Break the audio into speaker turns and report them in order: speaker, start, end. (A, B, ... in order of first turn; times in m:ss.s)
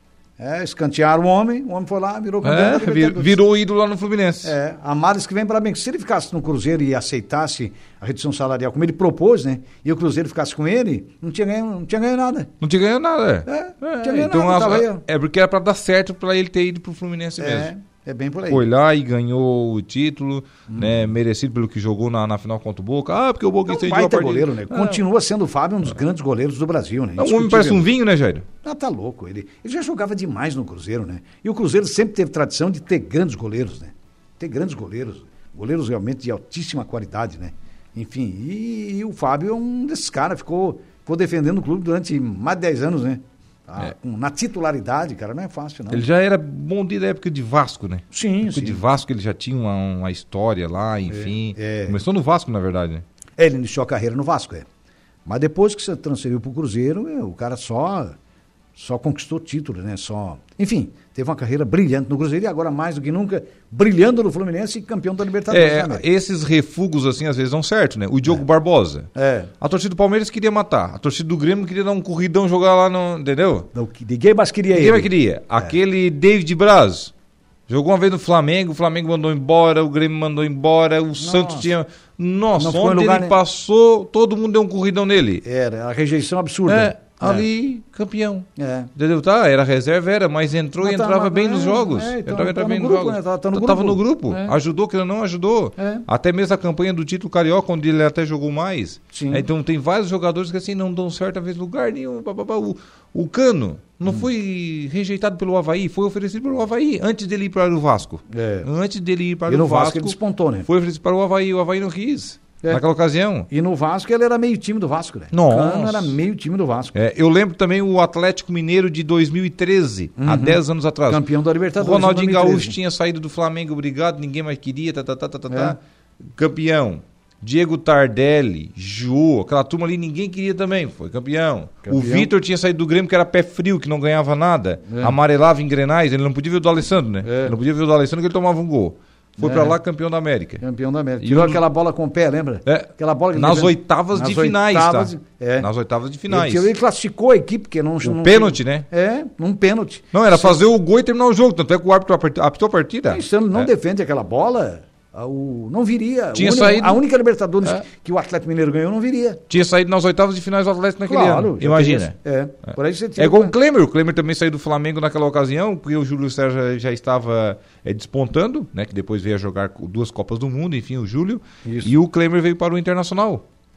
0:00.4-0:03.4 A
0:02.4-0:04.6 B
0:04.4-0:12.5 A
0:12.6-0:17.7 B
0:13.5-0:15.0 A
0:17.4-0:18.7 A
0:18.5-0:25.0 B
0:20.7-0:20.9 A
0:23.7-0:27.9 A
0:27.2-0:28.5 B
0:28.6-0:46.0 A
0:45.9-0:53.0 B
0:48.1-0:48.8 A
0:51.1-0:52.0 A
0:53.4-0:54.7 A
0:55.3-0:58.2 A
0:58.8-1:06.0 A
1:05.5-1:09.1 B
1:09.2-1:09.5 A
1:09.6-1:13.7 B
1:13.7-1:15.7 A
1:14.7-1:17.1 B
1:17.7-1:25.4 B
1:21.2-1:21.6 A
1:22.6-1:23.4 A
1:25.4-1:27.5 A
1:26.7-1:50.2 B
1:28.6-1:28.9 A
1:30.8-1:34.6 A
1:35.8-1:36.0 A
1:39.1-1:39.5 A
1:48.3-1:48.7 A
1:49.5-1:50.7 A
1:50.7-1:53.5 B
1:53.5-1:57.0 A
1:55.3-1:56.2 B
1:56.9-2:20.6 B
2:00.2-2:02.8 A
2:05.5-2:05.8 A
2:11.8-2:12.3 A
2:14.9-2:15.2 A
2:17.2-2:17.5 A
2:19.4-2:19.8 A
2:20.6-2:25.7 A
2:21.2-2:21.6 B
2:22.7-2:26.7 B
2:26.3-2:30.6 A
2:28.0-2:28.9 B
2:30.1-2:33.7 B
2:33.1-2:39.4 A
2:36.4-2:37.0 B
2:39.5-2:42.2 B
2:41.1-2:43.6 A
2:42.7-2:53.4 B
2:51.6-2:51.9 A